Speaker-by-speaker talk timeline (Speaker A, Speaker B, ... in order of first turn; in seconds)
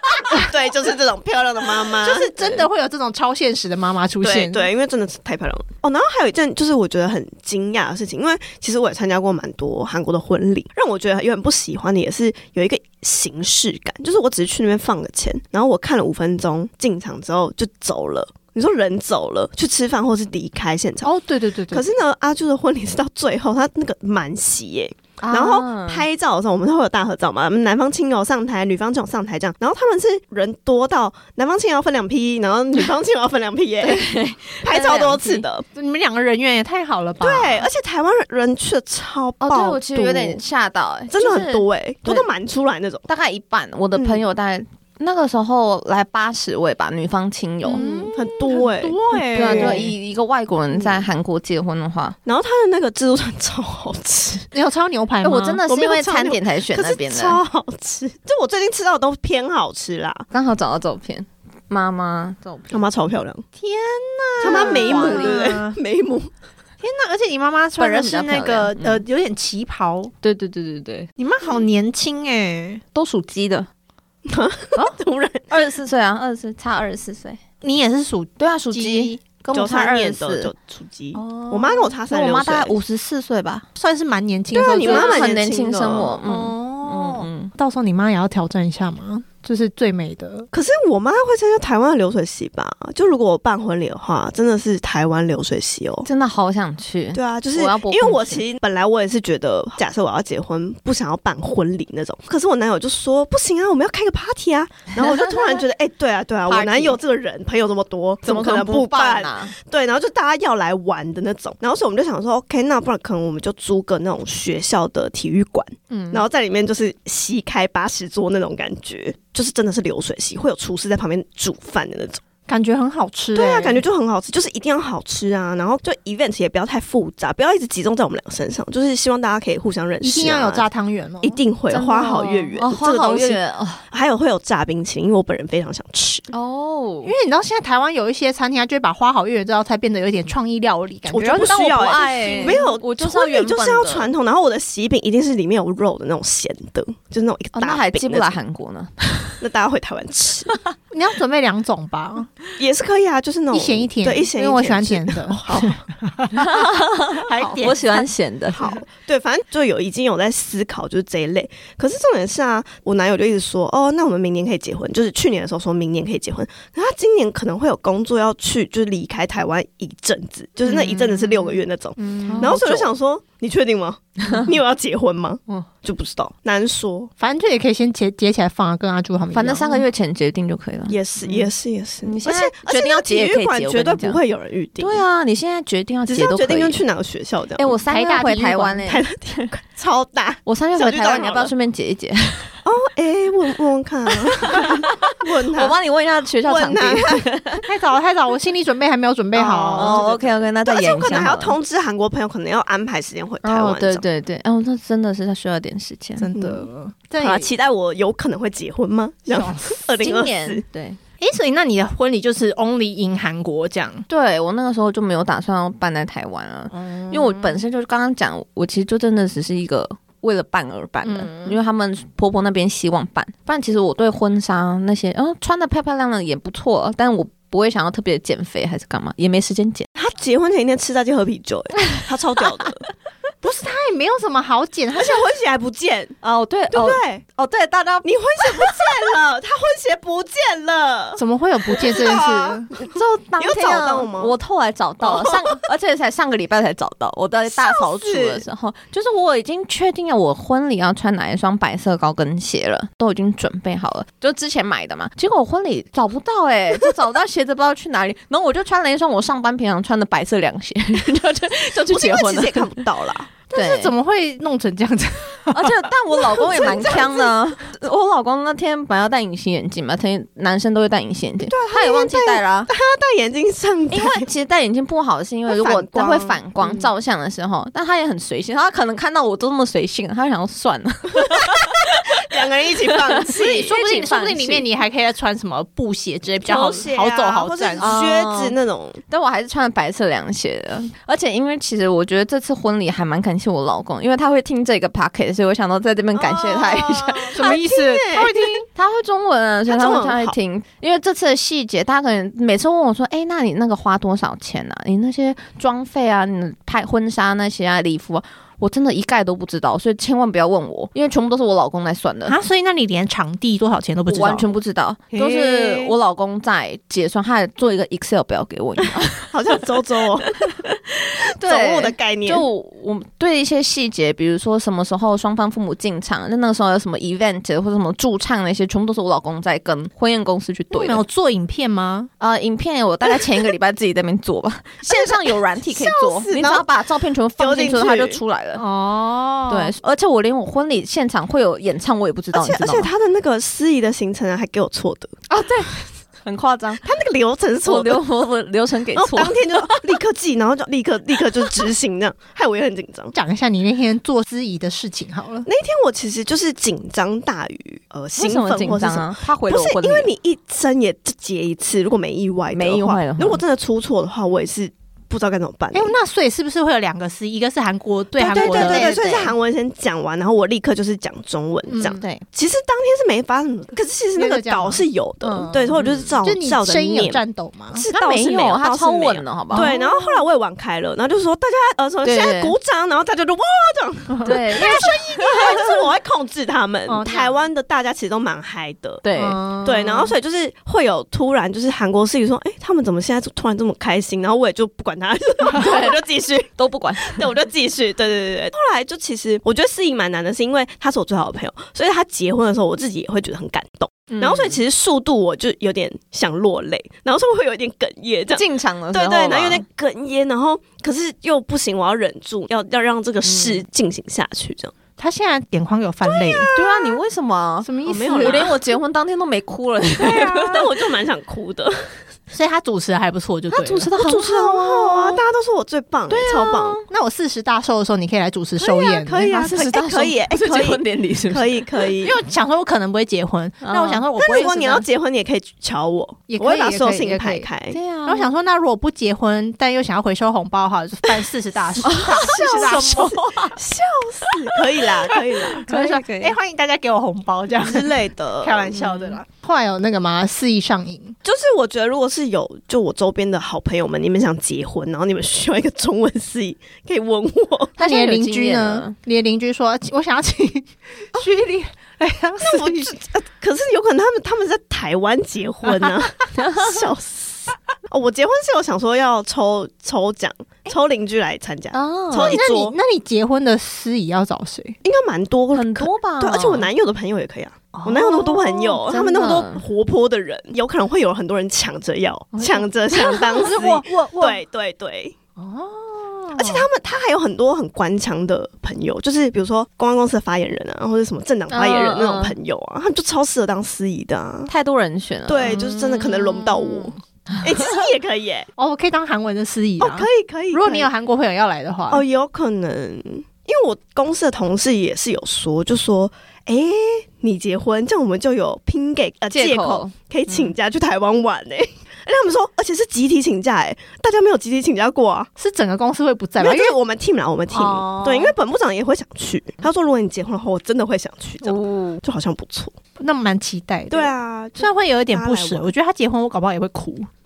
Speaker A: 0.3-2.6, 4.2-21.1, 21.7-35.7, 37.2-40.4, 41.1-43.1, 44.0-44.2, 47.7-49.9, 50.7-51.1, 52.3-54.5, 55.7-60.3, 62.7-63.5, 64.4-66.3, 74.2-75.5, 79.5-82.8, 84.5-86.2, 90.5-96.1, 97.1-122.2, 123.3-130.7, 131.2-136.3, 141.1-148.3, 149.4-150.6, 152.6-155.8, 158.6-177.1, 180.9-185.0, 186.1-187.8, 188.8-191.5, 192.7-195.8, 196.4-197.6, 199.3-204.1, 206.3-206.7, 207.2-210.6, 230.0-232.8, 234.9-236.2, 236.7-237.2, 238.0-241.2, 241.8-244.3, 245.0-245.6, 247.5-248.4, 261.9-263.3, 266.6-267.1, 271.4-274.3, 275.5-276.9, 282.2-283.7, 286.4-289.0, 296.1-298.4, 299.7-300.4, 319.3-320.5, 321.4-322.4, 335.6-336.7, 337.4-338.2, 342.3-345.2, 346.8-348.0, 348.9-353.1, 355.5-365.9, 368.2-389.1, 389.6-414.7, 416.0-417.0, 417.9-418.6, 420.0-422.0, 424.0-426.8, 428.6-432.2, 434.2-437.8, 442.1-445.7, 447.6-448.9, 451.2-457.8, 462.4-472.8, 474.8-485.2, 486.4-494.5, 495.3-498.5, 499.8-500.9, 501.9-515.3, 516.4-522.8, 523.9-525.7
Speaker B: 1.9-4.7, 21.0-21.9, 35.8-37.7, 47.7-49.9, 54.5-55.6, 63.6-65.8, 66.8-70.1, 71.2-72.8, 77.6-79.2, 81.2-82.0, 83.8-85.4, 86.3-90.5, 115.9-116.2, 122.5-123.8, 130.0-131.4, 137.0-142.7, 150.9-152.3, 153.5-158.8, 172.0-172.6, 177.2-179.8, 187.9-188.8, 197.6-200.0, 206.2-207.5, 209.3-209.8, 211.2-214.1, 216.7-217.6, 221.0-221.6, 233.4-235.3, 241.2-242.7, 263.5-265.8, 266.4-267.0, 283.4-288.0, 297.4-298.7, 312.3-314.5, 315.1-315.9, 330.7-332.1, 338.6-339.7, 353.1-355.5, 365.7-369.0, 371.7-372.0, 374.2-374.8, 375.4-375.7, 376.2-377.9, 379.5-380.2, 384.1-385.7, 386.9-387.3, 389.2-390.1, 415.0-416.5, 417.6-418.6, 420.0-420.7, 422.3-423.9, 426.9-429.4, 432.0-434.9, 436.3-437.5, 438.1-443.2, 445.6-451.1, 457.8-462.9, 472.3-474.8, 477.7-478.8, 482.4-484.4, 485.4-486.7, 498.6-502.0, 515.4-516.8, 517.5-518.4, 523.0-527.1
Speaker C: 25.2-26.1, 33.8-35.5, 39.4-42.3, 43.1-48.1, 49.3-52.2, 55.2-57.4, 60.3-62.8, 64.4-65.4, 67.8-69.0, 70.2-71.1, 72.9-73.7, 75.5-77.4, 78.4-80.5, 82.1-83.7, 84.8-87.5, 96.0-98.4, 105.0-105.7, 106.5-107.0, 108.2-109.5, 131.7-133.8, 136.3-137.1, 141.4-144.1, 147.5-149.4, 156.3-158.6, 170.7-171.4, 172.2-172.9, 179.3-181.5, 182.0-184.2, 184.8-186.8, 187.6-189.5, 190.5-192.6, 194.3-197.4, 199.7-201.6, 203.4-206.3, 210.0-211.0, 214.1-229.9, 236.2-238.9, 242.7-262.8, 263.5-263.9, 265.5-272.7, 273.9-282.2, 283.1-284.7, 287.8-288.6, 289.1-297.6, 298.7-312.4, 314.1-319.7, 320.4-331.0, 332.2-338.6, 339.5-342.9, 345.3-346.8, 347.6-349.8, 358.2-360.1, 362.5-363.4, 368.3-369.3, 371.8-372.2, 375.2-376.1, 377.9-379.7, 382.0-382.6, 384.2-385.7, 389.0-389.4, 395.5-396.0, 396.6-397.3, 404.1-404.6, 408.4-409.6, 413.2-413.6, 416.5-420.6, 423.5-425.2, 426.1-426.9, 429.2-431.6, 433.6-434.1, 437.7-438.3, 441.8-443.6, 445.5-446.4, 448.8-449.1, 457.8-458.9, 466.4-466.8, 471.7-472.4, 475.5-476.7, 478.9-479.6, 491.5-492.3, 494.5-497.7, 509.3-509.9, 521.4-522.0